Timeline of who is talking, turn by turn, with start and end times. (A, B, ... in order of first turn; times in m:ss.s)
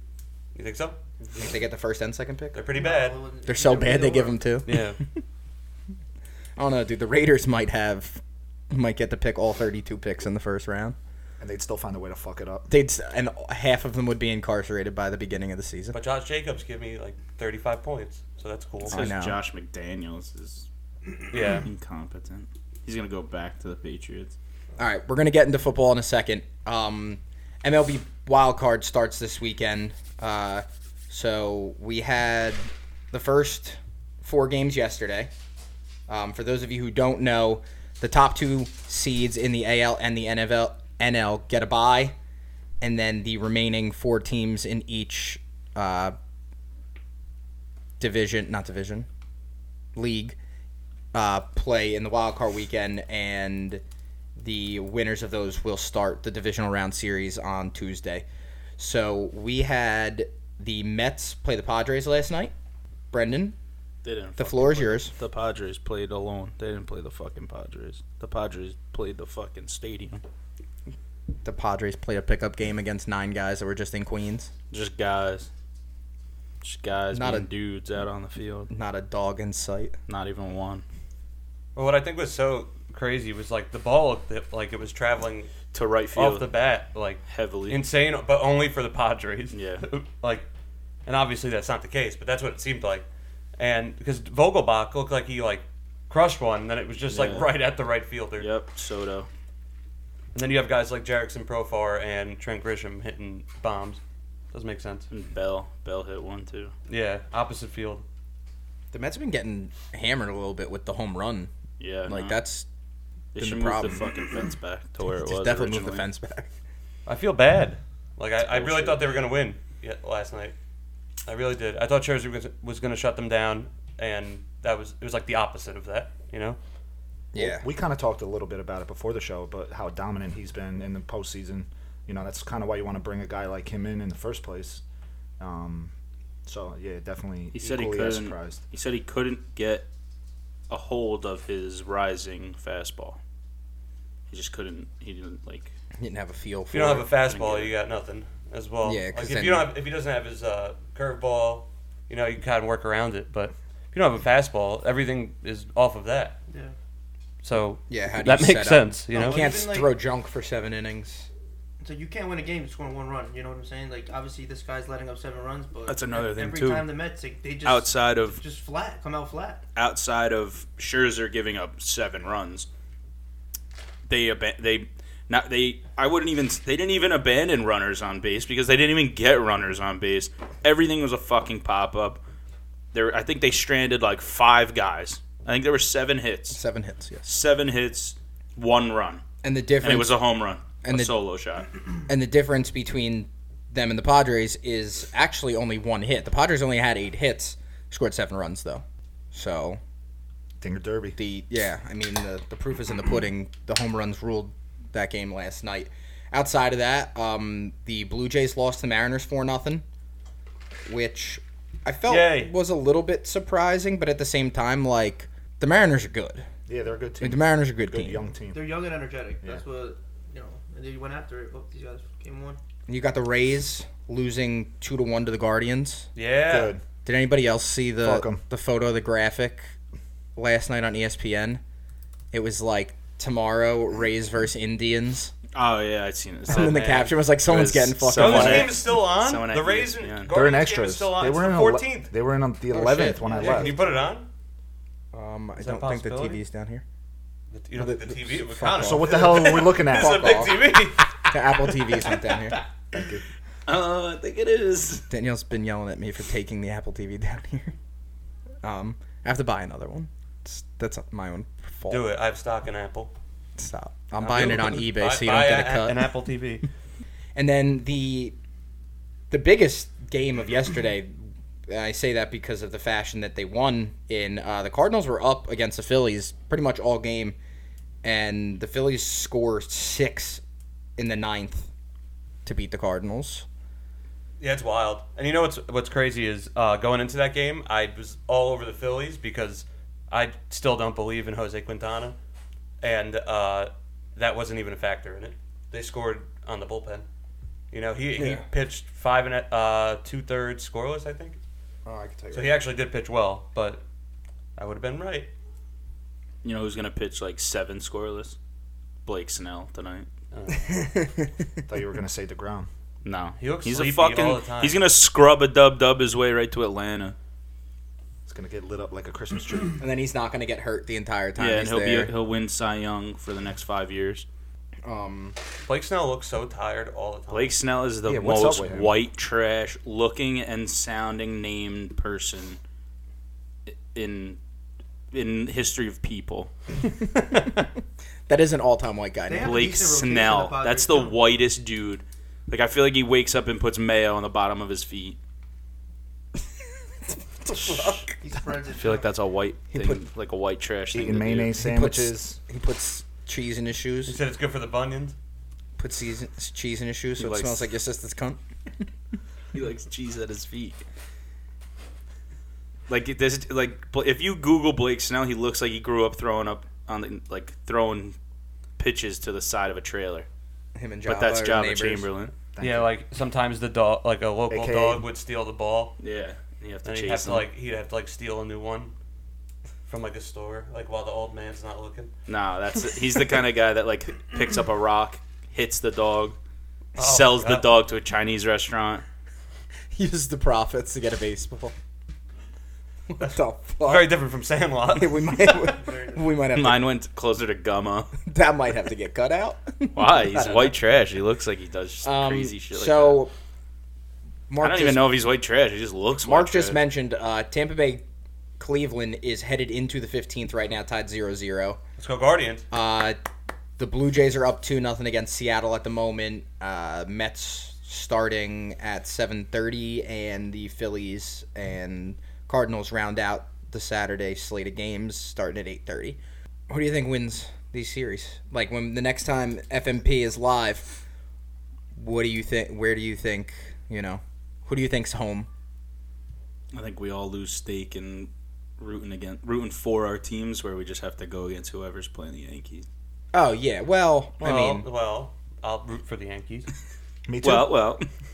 0:00.6-0:01.0 A
0:01.4-0:02.7 B
0:02.5-0:03.2 A
0:02.7-0:04.4 C
0:03.5-0:05.0 B
0:04.7-0:05.0 A
0:06.6-0:11.0 B
0:11.4-0:12.7 D
0:12.7-0:16.0 B
0:15.9-0:19.1 A
0:18.8-0:19.4 B
0:18.8-0:20.7 E
0:21.3-0:21.7 A
0:21.6-0:24.4 E
0:24.8-0:35.3 B
0:36.1-0:42.2 B
0:42.8-0:46.2 B
0:48.0-0:49.1 B
0:50.0-0:50.4 B
0:51.1-0:53.8 B
0:54.4-0:58.2 B
0:58.8-1:02.5 B
1:03.1-1:03.6 B
1:04.0-1:10.2 E
1:04.4-1:05.1 B
1:11.4-1:14.5 B
1:14.7-1:15.5 E
1:16.6-1:18.7 E
1:17.1-1:17.5 B
1:18.7-1:20.0 B
1:20.1-1:20.8 E
1:21.8-1:25.6 A
1:25.7-1:26.4 E
1:26.2-1:30.5 A
1:27.3-1:27.8 E
1:29.5-1:29.8 E
1:31.1-1:33.1 A
1:33.6-1:38.5 A
1:37.1-1:37.5 E
1:38.4-1:39.3 E
1:40.4-1:44.0 A
1:44.5-1:45.1 A
1:45.1-1:46.7 E
1:46.9-1:48.0 A
1:48.9-1:51.5 B
1:51.8-1:52.4 E
1:52.1-1:52.7 B
1:53.3-1:56.1 E
1:53.4-1:54.1 B
1:55.1-1:56.5 B
1:57.1-2:00.6 A
1:58.5-1:59.2 E
2:01.3-2:06.6 A
2:07.3-2:07.6 B
2:07.4-2:14.8 D
2:15.4-2:15.9 D
2:16.5-2:18.6 D
2:17.5-2:19.9 E
2:20.7-2:23.2 E
2:24.3-2:25.7 E
2:26.0-2:27.7 B
2:26.7-2:36.4 A
2:28.8-2:29.7 B
2:37.4-2:39.5 A
2:37.9-2:41.3 B
2:39.1-2:39.9 C
2:41.8-2:49.6 C
2:45.9-2:46.9 E
2:47.6-2:48.4 E
2:49.8-2:52.7 E
2:54.1-3:02.2 E
3:02.9-3:06.6 E
3:06.5-3:07.3 B
3:07.2-3:09.2 E
3:09.4-3:11.2 B
3:09.8-3:11.7 E
3:12.1-3:19.8 B
3:20.6-3:21.2 D
3:21.2-3:29.8 B
3:30.9-3:36.5 B
3:32.1-3:32.5 A
3:36.7-3:38.8 D
3:37.2-3:38.2 B
3:38.5-3:42.6 C
3:42.9-3:46.1 B
3:46.2-3:46.7 A
3:46.5-3:46.8 D
3:47.1-3:49.7 B
3:48.0-3:48.4 D
3:50.4-3:51.6 B
3:52.3-3:55.3 B
3:55.6-4:00.3 E
3:56.5-3:58.8 B
3:58.2-4:02.1 A
4:00.3-4:03.8 D
4:02.7-4:03.6 B
4:03.3-4:03.7 C
4:03.3-4:04.3 A
4:05.1-4:06.8 B
4:05.6-4:06.4 A
4:07.5-4:12.1 A
4:07.8-4:09.2 B
4:08.8-4:10.2 D
4:09.9-4:12.6 B
4:12.9-4:13.2 D
4:13.7-4:15.1 E
4:15.1-4:17.7 B
4:18.6-4:22.1 B
4:21.9-4:23.1 A
4:23.6-4:26.0 B
4:24.2-4:26.7 A
4:27.4-4:28.4 B
4:29.3-4:37.4 B
4:38.0-4:40.4 B
4:41.0-4:41.7 B
4:42.4-4:43.4 B
4:44.4-4:52.2 A
4:52.8-4:57.0 A
4:57.7-5:01.4 A
4:58.2-4:58.4 B
5:01.8-5:02.6 B
5:02.3-5:03.8 A
5:04.6-5:05.3 A
5:06.4-5:08.4 E
5:09.1-5:10.1 E
5:10.3-5:10.8 A
5:10.7-5:11.2 B
5:11.7-5:12.7 D
5:13.0-5:17.2 E
5:13.4-5:14.8 A
5:18.3-5:19.8 D
5:19.8-5:22.1 B
5:21.4-5:24.3 E
5:24.8-5:25.4 B
5:25.7-5:27.6 A
5:27.3-5:32.6 E
5:28.0-5:29.0 D
5:33.7-5:34.4 E
5:35.1-5:36.5 E
5:38.3-5:39.7 B
5:39.3-5:41.2 C
5:39.3-5:45.2 E
5:48.2-5:49.1 C
5:48.8-5:51.6 E
5:49.7-5:50.1 B
5:50.9-5:52.4 D
5:51.6-5:54.2 B
5:54.1-5:55.2 A
5:55.8-5:58.4 B
5:57.2-5:57.6 E
5:59.5-6:00.8 E
6:02.9-6:08.2 E
6:08.8-6:10.3 E
6:10.8-6:12.1 B
6:11.1-6:12.4 E
6:12.5-6:12.9 D
6:12.6-6:16.0 A
6:14.5-6:15.0 D
6:16.0-6:17.5 E
6:16.9-6:18.9 A
6:19.9-6:22.1 A
6:22.3-6:26.4 E
6:27.0-6:27.7 A
6:27.0-6:29.0 E
6:29.9-6:31.8 B
6:33.1-6:34.2 B
6:33.2-6:36.0 A
6:34.9-6:36.8 B
6:35.8-6:36.2 C
6:36.5-6:38.1 E
6:38.3-6:40.8 B
6:39.9-6:43.2 E
6:42.0-6:43.3 B
6:44.5-6:45.1 B
6:44.6-6:46.8 E
6:46.2-6:48.0 B
6:48.6-6:51.8 B
6:52.0-6:52.6 A
6:52.7-6:53.2 B
6:53.8-7:11.0 B
7:12.0-7:15.5 B
7:16.7-7:22.9 E
7:23.3-7:24.9 B
7:24.4-7:26.7 A
7:27.3-7:27.8 D
7:27.4-7:28.1 E